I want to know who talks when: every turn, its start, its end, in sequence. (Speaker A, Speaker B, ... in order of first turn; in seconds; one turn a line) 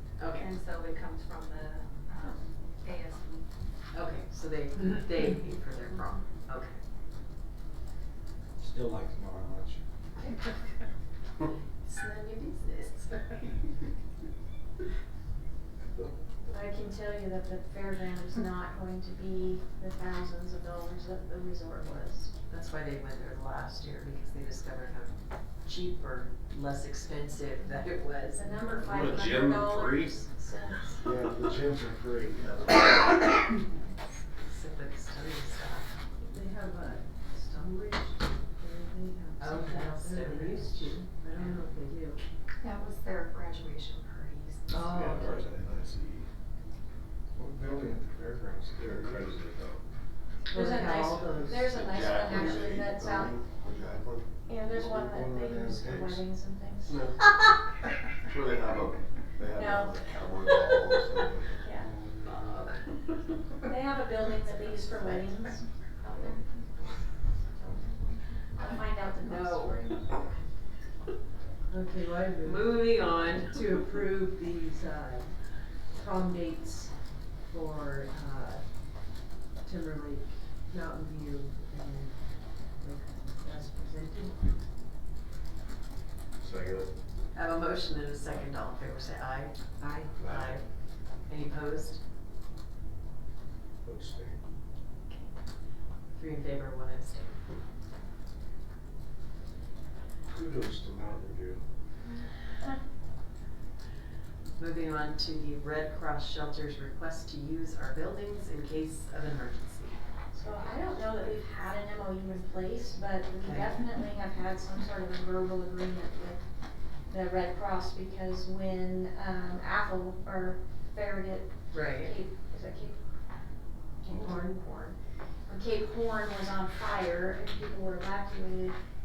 Speaker A: 0.2-0.5
Speaker B: 0.3-3.4
Speaker A: 3.9-6.8
Speaker C: 8.6-9.8
Speaker A: 11.8-13.7
Speaker D: 16.5-22.3
Speaker A: 22.5-25.1
Speaker A: 25.6-28.5
Speaker D: 28.3-31.1
Speaker E: 28.8-30.1
Speaker C: 31.0-33.0
Speaker A: 34.4-35.9
Speaker F: 36.2-42.2
Speaker A: 39.4-41.6
Speaker B: 42.6-44.6
Speaker F: 44.7-45.4
Speaker E: 44.8-46.3
Speaker C: 47.3-49.4
Speaker E: 48.8-49.8
Speaker F: 50.5-51.6
Speaker D: 50.5-53.4
Speaker E: 51.6-54.2
Speaker D: 54.5-57.3
Speaker C: 54.7-56.2
Speaker E: 58.2-61.6
Speaker D: 59.4-61.9
Speaker C: 61.8-62.6
Speaker A: 62.2-62.7
Speaker D: 63.6-66.4
Speaker D: 67.5-70.3
Speaker A: 68.6-69.8
Speaker F: 71.7-75.3
Speaker A: 72.4-73.7
Speaker F: 75.9-76.9
Speaker F: 77.5-78.6
Speaker F: 79.6-84.5
Speaker E: 86.4-86.9
Speaker A: 87.3-89.6
Speaker F: 89.8-90.1
Speaker C: 90.2-90.5
Speaker A: 90.2-90.7
Speaker A: 91.3-92.0
Speaker C: 93.8-94.4
Speaker A: 95.1-95.3
Speaker A: 96.1-97.4
Speaker C: 100.3-101.6
Speaker A: 104.6-110.0
Speaker D: 110.3-116.4
Speaker A: 113.4-113.7
Speaker D: 117.1-123.0
Speaker A: 121.7-122.2
Speaker D: 124.0-124.6
Speaker F: 124.1-124.9
Speaker D: 125.5-128.8